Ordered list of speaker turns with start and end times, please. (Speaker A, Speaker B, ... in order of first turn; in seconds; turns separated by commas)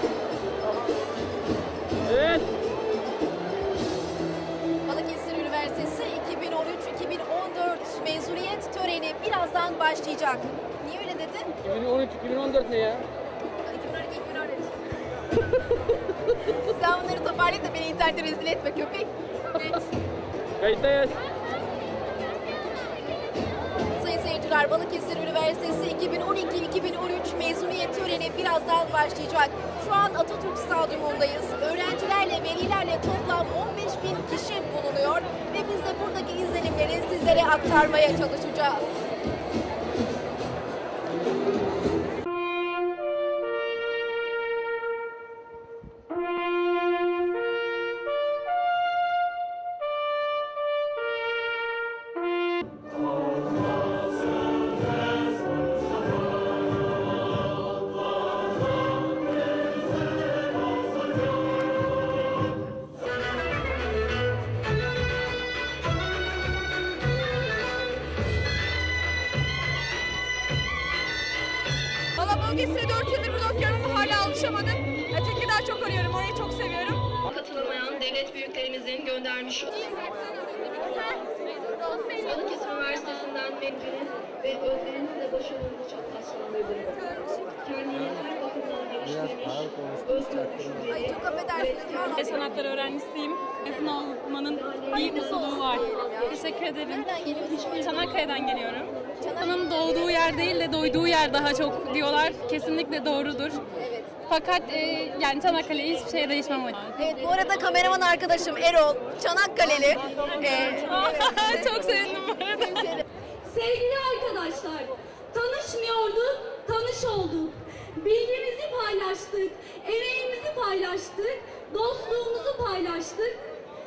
Speaker A: 2.1-2.5, Speaker B: 4.9-11.6, Speaker A: 11.7-13.1, Speaker B: 13.6-14.7, Speaker B: 16.7-19.8, Speaker A: 20.6-21.1, Speaker B: 23.9-38.8, Speaker C: 72.2-77.0, Speaker D: 77.3-80.0, Speaker D: 82.2-92.5, Speaker B: 90.8-92.5, Speaker C: 92.2-103.7, Speaker D: 94.6-96.4, Speaker B: 94.9-98.0, Speaker D: 97.8-98.2, Speaker B: 99.2-100.6, Speaker B: 103.7-104.1, Speaker C: 104.3-107.0, Speaker B: 107.0-113.0, Speaker C: 110.4-113.0, Speaker E: 113.4-123.4